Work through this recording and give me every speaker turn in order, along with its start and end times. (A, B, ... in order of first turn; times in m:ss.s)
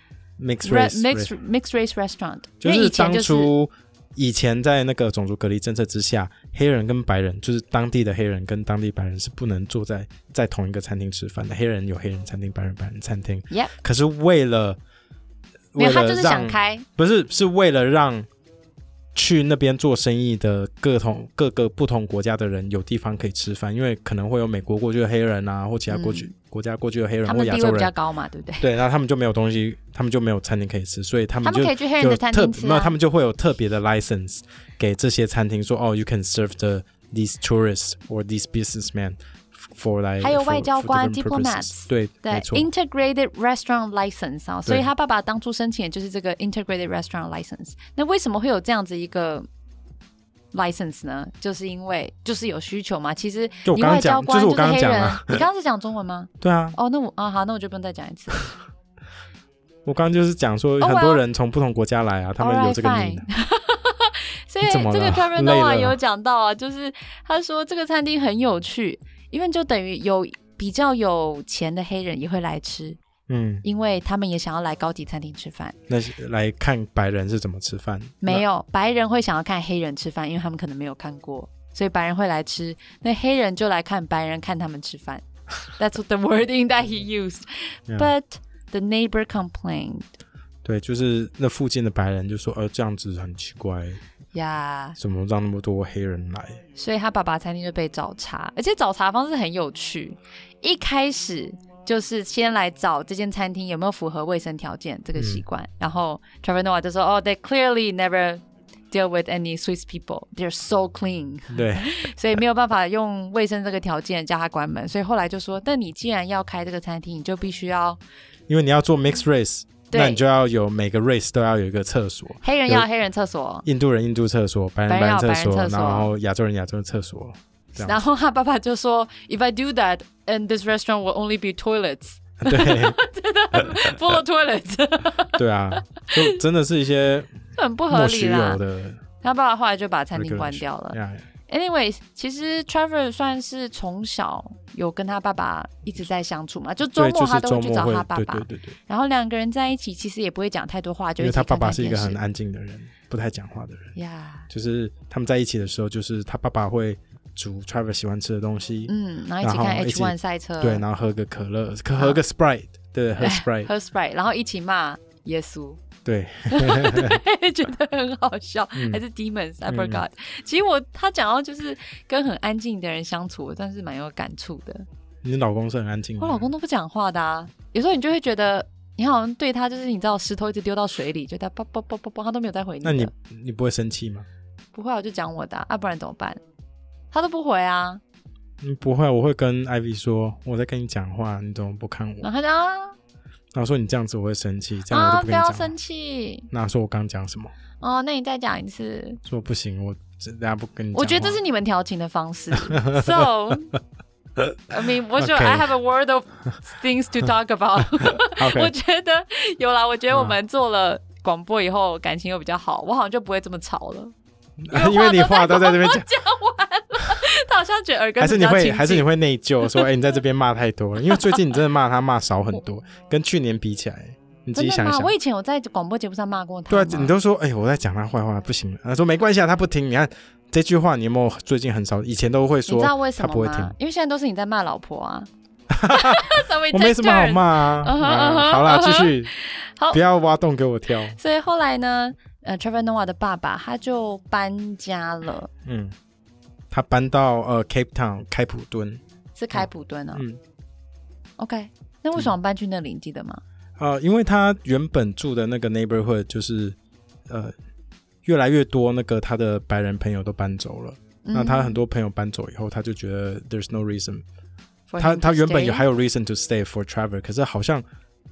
0:00.4-0:01.3 A
0:00.6-0:03.5 B
0:02.6-0:14.8 A
0:15.7-0:18.3 A
0:15.8-0:16.8 B
0:19.1-0:27.9 A
0:25.9-0:26.3 B
0:27.2-0:28.7 B
0:28.6-0:42.7 A
0:31.4-0:33.0 B
0:40.2-0:49.5 B
0:50.5-0:58.5 B
0:53.6-0:55.4 A
0:56.4-0:56.8 A
0:59.8-1:03.2 A
1:00.8-1:01.2 B
1:02.4-1:13.0 B
1:04.6-1:06.0 A
1:13.3-1:13.6 A
1:13.6-1:15.8 B
1:15.9-1:18.4 A
1:18.2-1:30.1 B
1:30.6-1:34.0 A
1:34.3-1:35.0 B
1:35.0-1:36.6 A
1:36.7-1:58.0 B
1:45.2-1:45.4 A
1:51.5-1:51.9 A
1:58.5-2:02.8 A
1:59.9-2:00.2 B
2:02.4-2:03.6 B
2:03.6-2:08.0 A
2:04.9-2:06.1 B
2:07.8-2:15.4 B
2:12.4-2:13.0 A
2:15.4-2:17.4 A
2:16.0-2:16.4 B
2:17.5-2:18.6 B
2:17.9-2:19.0 A
2:19.2-2:21.0 B
2:20.1-2:21.2 A
2:21.5-2:32.2 B
2:27.0-2:28.7 A
2:31.2-2:33.9 A
2:33.9-2:34.5 B
2:34.5-2:43.7 A
2:38.9-2:40.8 B
2:41.9-2:42.2 B
2:43.2-2:45.8 B
2:46.0-2:47.2 A
2:46.5-2:54.9 B
2:48.7-2:49.0 A
2:49.7-2:50.0 A
2:55.2-2:56.4 A
2:56.2-3:03.1 B
3:02.8-3:04.3 A
3:04.7-3:06.4 B
3:07.1-3:08.0 B
3:08.6-3:12.2 A
3:12.2-3:13.0 B
3:13.5-3:15.7 A
3:14.9-3:16.5 B
3:16.5-3:17.5 A
3:17.8-3:19.2 B
3:19.2-3:21.4 A
3:20.9-3:23.7 B
3:22.5-3:23.2 A
3:24.7-3:34.1 B
3:25.2-3:25.7 A
3:28.4-3:28.7 A
3:30.1-3:30.4 A
3:34.6-3:36.1 A
3:34.7-3:39.1 B
3:38.2-3:45.1 A
3:39.6-3:39.9 B
3:41.0-3:41.4 B
3:44.5-3:47.1 B
3:46.7-3:53.7 A
3:52.7-3:55.3 B
3:55.7-3:59.3 A
3:55.9-4:00.0 B
3:59.9-4:01.2 A
4:01.2-4:05.5 B
4:05.6-4:05.9 A
4:06.7-4:09.0 A
4:09.4-4:10.2 B
4:09.5-4:10.4 A
4:11.4-4:13.4 B
4:13.8-4:16.8 A
4:17.3-4:17.5 A
4:18.2-4:24.2 A
4:21.2-4:21.8 B
4:24.9-4:25.8 B
4:25.0-4:27.8 A